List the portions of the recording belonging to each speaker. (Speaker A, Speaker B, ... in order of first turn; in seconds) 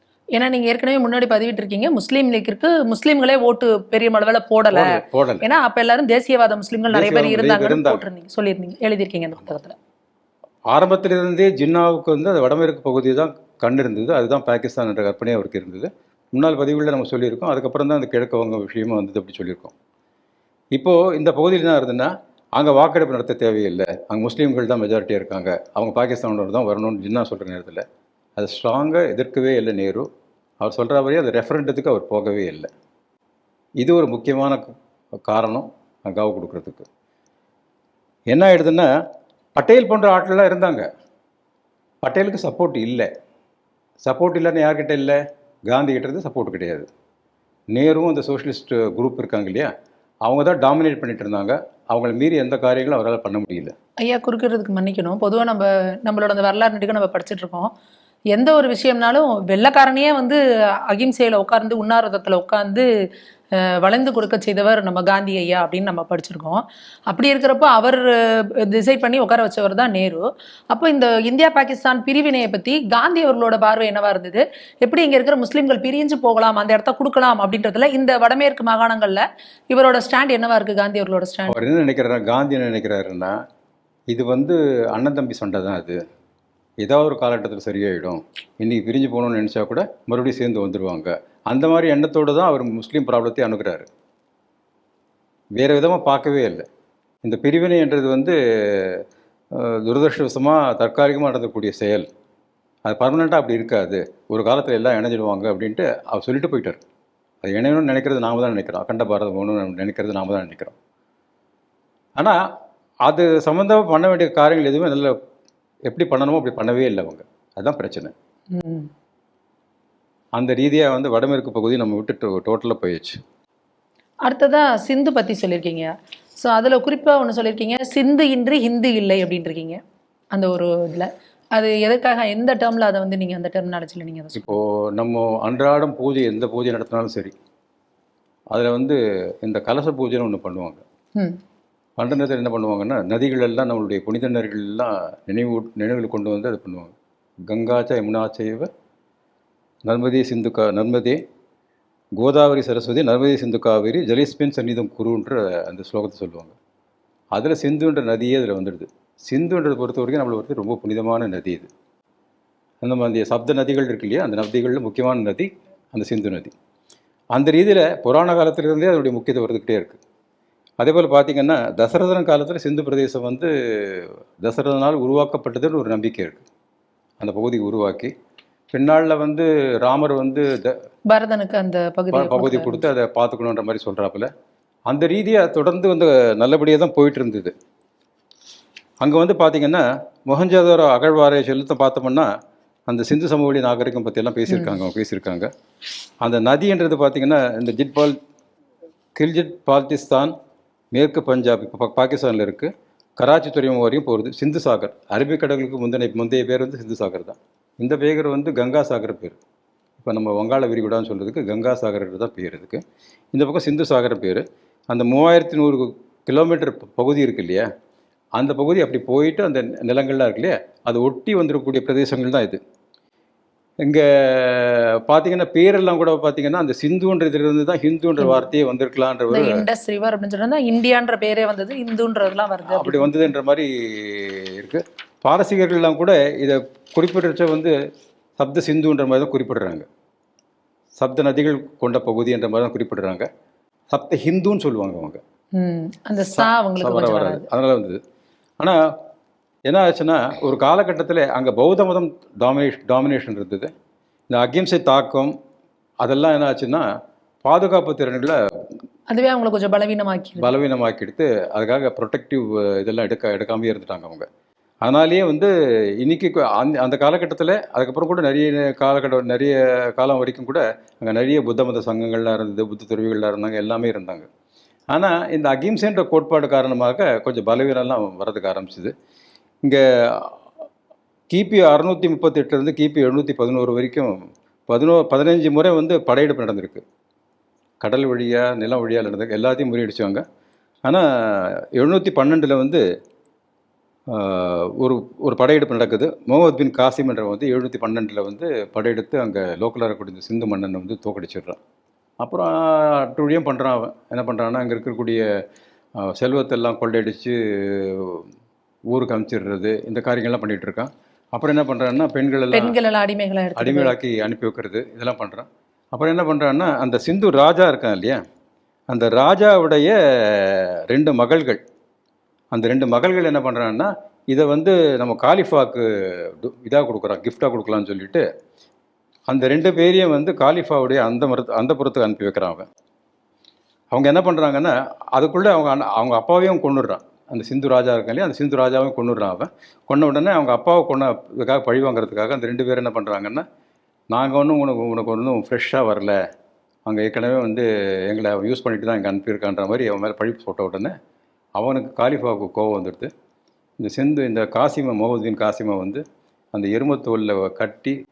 Speaker A: 0.3-9.8, 54.0-57.7, 58.3-62.9, 63.6-81.6, 118.5-118.9, 124.2-129.8, 130.3-134.5, 181.1-182.9, 194.5-194.8, 228.2-228.5, 229.3-233.3, 245.6-247.5, 259.1-260.5, 312.5-313.9
Speaker B: 4.7-5.5, 6.9-8.0, 10.7-19.7, 20.7-27.8, 28.4-30.1, 30.6-32.7, 33.8-34.7, 35.3-36.9, 38.3-38.9, 39.5-40.9, 42.0-43.1, 44.0-46.9, 47.7-49.7, 50.2-53.7, 81.5-83.4, 84.1-86.0, 86.8-93.9, 95.6-96.7, 97.2-99.0, 99.5-102.1, 102.9-106.8, 107.4-110.8, 113.0-115.2, 115.9-118.1, 120.4-123.2, 134.4-137.3, 138.5-140.8, 142.0-146.9, 147.5-148.7, 149.8-151.2, 152.2-156.6, 157.3-161.7, 162.8-166.5, 167.3-170.0, 170.8-176.4, 177.2-178.1, 178.7-180.8, 182.1-184.3, 184.9-187.5, 189.0-192.3, 192.9-195.5, 196.2-198.2, 199.2-200.3, 200.9-209.4, 210.0-212.8, 213.3-217.7, 218.4-222.6, 223.8-229.6, 232.7-237.7, 238.4-239.9, 241.0-243.3, 243.9-245.2, 246.3-248.0, 249.7-253.7, 254.3-255.3, 256.0-256.9, 257.4-258.4, 260.4-264.3, 264.8-274.3, 274.9-278.9, 279.6-280.4, 281.3-284.2, 284.7-286.8, 287.8-290.2, 290.9-292.8, 294.1-301.6, 302.2-305.2, 306.1-308.3, 308.9-312.8, 313.6-318.2, 318.9-321.6, 322.5-328.2, 329.3-332.7, 333.9-343.4, 344.1-346.2, 346.9-350.9, 351.6-353.1, 353.8-358.0